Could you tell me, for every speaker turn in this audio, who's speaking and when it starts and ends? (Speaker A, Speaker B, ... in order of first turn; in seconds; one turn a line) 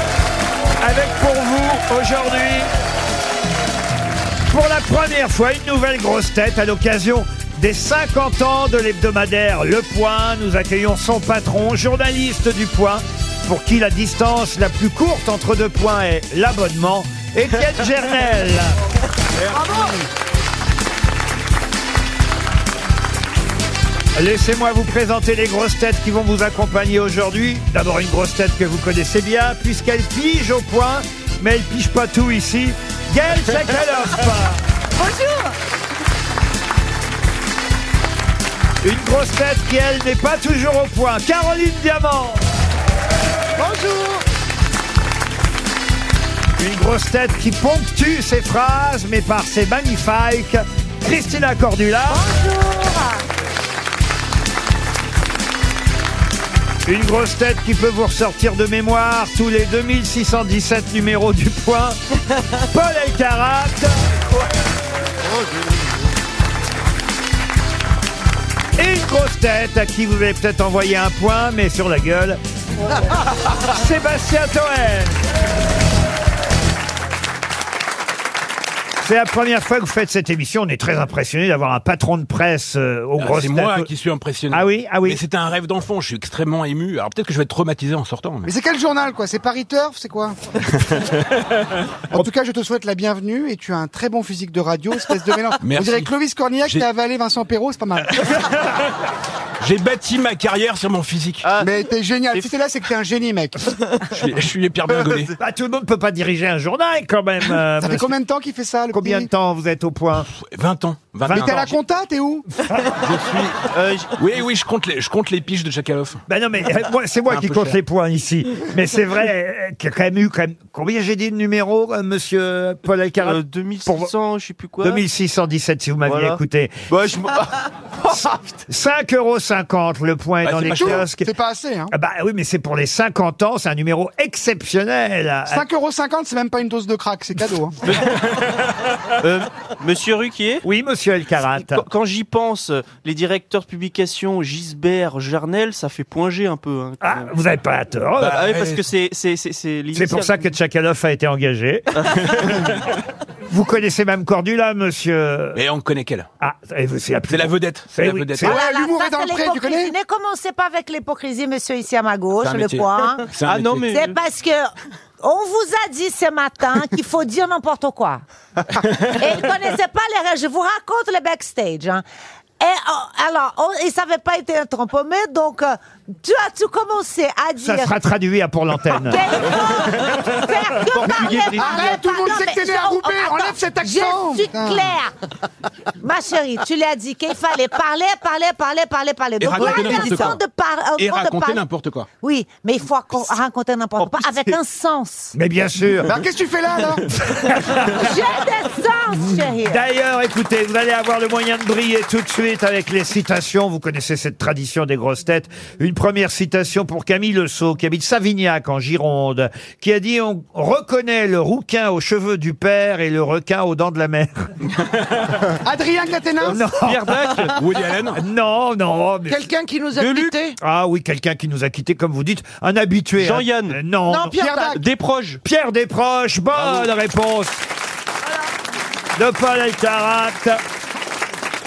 Speaker A: 0.8-2.7
Speaker A: 4.5-18.8
Speaker B: 19.5-20.0
Speaker C: 19.5-19.8
Speaker A: 24.1-34.6
Speaker A: 38.8-42.4
Speaker D: 43.6-44.2
Speaker A: 46.6-52.2
Speaker E: 52.1-53.2
Speaker A: 56.9-62.0
Speaker A: 62.7-64.0
Speaker A: 68.8-72.4
Speaker A: 73.6-75.2
Speaker A: 79.0-83.9
Speaker C: 83.2-88.5
Speaker A: 84.5-85.2
Speaker B: 88.4-90.3
Speaker B: 92.1-98.3
Speaker C: 95.6-96.1
Speaker C: 99.6-101.5
Speaker F: 101.4-102.5
Speaker B: 101.6-103.5
Speaker C: 104.1-105.3
Speaker A: 105.4-108.1
Speaker B: 107.8-109.3
Speaker A: 108.9-110.3
Speaker C: 110.3-111.8
Speaker A: 111.3-111.6
Speaker B: 111.3-112.5
Speaker C: 113.0-116.2
Speaker F: 113.6-114.4
Speaker A: 116.3-124.1
Speaker C: 117.3-117.8
Speaker F: 123.2-125.0
Speaker A: 124.8-126.7
Speaker F: 126.0-128.4
Speaker A: 128.1-131.3
Speaker C: 130.4-131.1
Speaker B: 130.7-131.9
Speaker A: 131.9-135.6
Speaker B: 135.5-137.8
Speaker F: 137.8-138.2
Speaker F: 139.2-140.6
Speaker A: 140.6-141.8
Speaker F: 141.6-147.3
Speaker A: 147.0-148.6
Speaker C: 148.2-148.8
Speaker F: 148.2-150.5
Speaker A: 149.9-152.7
Speaker F: 152.0-152.5
Speaker A: 153.5-155.6
Speaker C: 155.5-156.3
Speaker A: 156.4-158.5
Speaker C: 157.3-158.5
Speaker B: 158.4-159.9
Speaker E: 158.4-163.3
Speaker C: 162.4-164.0
Speaker F: 163.4-164.2
Speaker E: 163.9-168.2
Speaker E: 169.1-172.0
Speaker E: 172.6-177.9
Speaker A: 177.6-179.3
Speaker E: 178.9-185.1
Speaker F: 181.0-181.8
Speaker B: 181.0-184.9
Speaker E: 186.0-191.6
Speaker C: 189.4-190.4
Speaker C: 191.0-192.1
Speaker E: 192.2-195.3
Speaker F: 194.0-194.6
Speaker A: 195.3-196.1
Speaker B: 196.0-197.1
Speaker A: 197.1-198.2
Speaker E: 197.9-199.8
Speaker A: 199.6-214.5
Speaker C: 214.8-215.3
Speaker B: 215.6-216.6
Speaker A: 216.5-217.6
Speaker F: 216.8-217.6
Speaker C: 217.5-218.2
Speaker A: 218.2-219.4
Speaker D: 219.3-220.6
Speaker F: 220.0-220.3
Speaker A: 220.6-224.3
Speaker F: 223.2-223.8
Speaker D: 224.1-224.8
Speaker B: 224.3-224.8
Speaker F: 224.7-225.4
Speaker A: 225.4-227.6
Speaker C: 226.6-226.9
Speaker A: 229.2-230.6